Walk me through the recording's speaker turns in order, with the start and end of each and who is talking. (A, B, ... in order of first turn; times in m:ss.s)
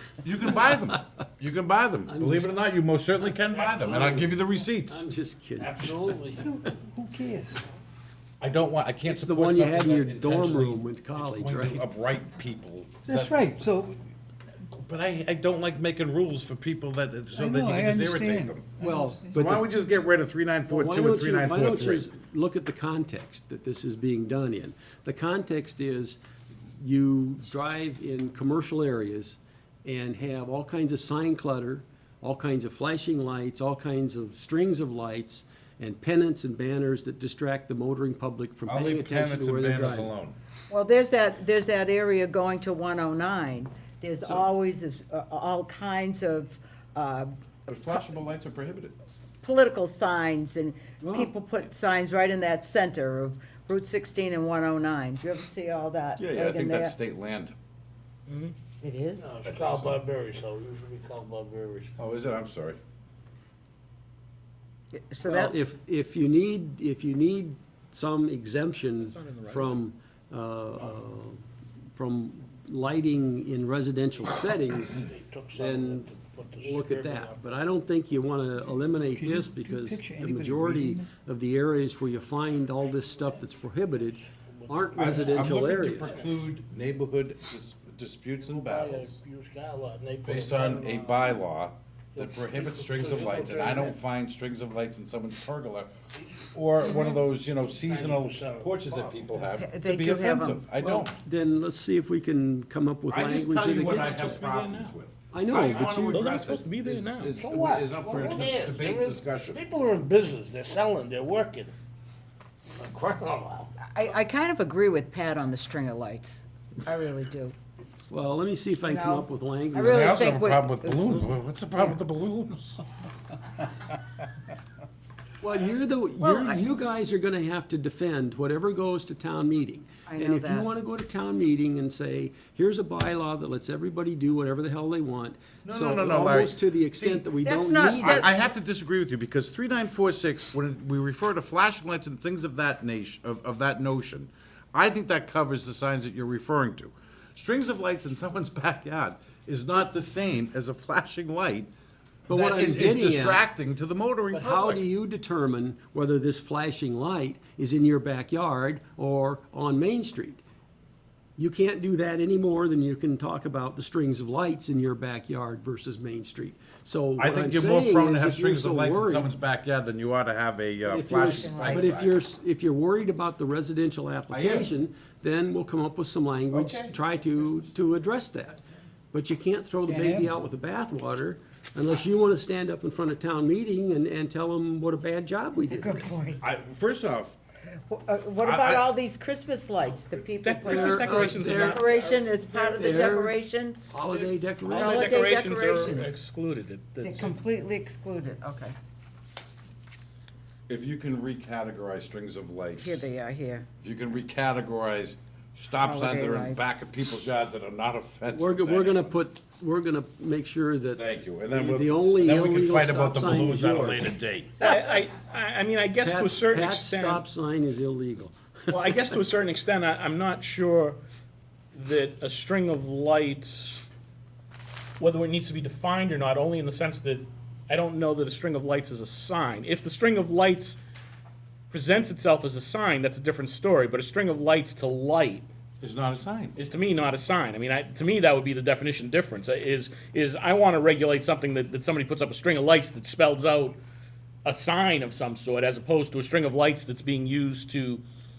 0:00.2-0:05.0 A
0:02.1-0:02.5 B
0:03.8-0:06.2 B
0:05.6-0:06.5 C
0:06.4-0:07.6 D
0:08.4-0:13.4 A
0:09.0-0:11.9 B
0:13.0-0:14.0 D
0:14.7-0:18.7 A
0:17.3-0:19.5 D
0:18.8-0:19.7 B
0:19.3-0:22.1 A
0:20.7-0:26.2 B
0:26.8-0:40.1 B
0:38.7-0:40.4 A
0:40.7-0:47.3 E
0:47.7-0:49.0 A
0:49.4-0:57.0 E
0:51.0-0:51.3 B
0:56.2-0:57.6 A
0:58.3-0:58.5 F
0:58.8-0:59.3 E
0:59.2-1:01.9 C
0:59.4-1:00.0 A
1:02.0-1:02.8 A
1:04.9-1:05.6 E
1:05.2-1:11.4 B
1:09.0-1:09.8 F
1:12.0-1:15.0 B
1:15.0-1:17.4 C
1:15.6-1:26.2 B
1:19.0-1:21.1 D
1:24.4-1:25.6 C
1:25.0-1:29.2 A
1:28.4-1:31.3 C
1:30.2-1:35.9 A
1:32.2-1:34.0 C
1:36.5-1:41.1 A
1:36.8-1:37.2 E
1:37.8-1:39.3 C
1:39.5-1:41.0 E
1:40.9-1:44.4 B
1:43.1-1:49.6 A
1:43.8-1:44.9 F
1:45.3-1:46.3 B
1:46.1-1:47.4 F
1:47.2-1:51.7 C
1:52.8-1:53.7 C
1:53.8-1:57.6 E
1:58.1-2:00.2 B
1:58.8-2:01.3 E
1:59.9-2:02.8 A
2:05.4-2:18.2 B
2:06.2-2:06.6 E
2:10.1-2:10.7 E
2:15.6-2:17.2 A
2:17.4-2:18.3 E
2:18.0-2:31.7 A
2:32.3-2:33.4 B
2:32.3-2:34.8 A
2:34.3-2:40.4 B
2:41.4-2:49.3 B
2:47.2-2:52.2 A
2:50.8-2:58.6 B
2:51.2-2:51.9 E
2:54.3-2:54.7 A
2:56.5-2:56.9 A
2:59.1-3:06.2 B
2:59.9-3:00.3 D
3:05.6-3:06.5 E
3:06.4-3:07.4 A
3:07.9-3:13.9 E
3:08.4-3:08.9 A
3:10.4-3:12.8 F
3:10.4-3:11.8 A
3:10.7-3:11.8 B
3:12.7-3:13.4 B
3:13.9-3:15.0 B
3:14.1-3:17.4 F
3:14.7-3:16.2 E
3:17.0-3:18.8 E
3:20.7-3:23.1 A
3:22.8-3:23.7 E
3:23.8-3:29.1 A
3:25.8-3:26.8 E
3:28.3-3:34.1 B
3:30.9-3:34.6 A
3:34.6-3:37.2 F
3:36.0-3:38.9 B
3:38.7-3:41.0 F
3:41.7-3:43.8 F
3:45.0-3:50.8 F
3:51.7-3:55.5 F
3:55.8-3:56.6 A
3:56.6-4:03.8 F
4:04.4-4:08.0 F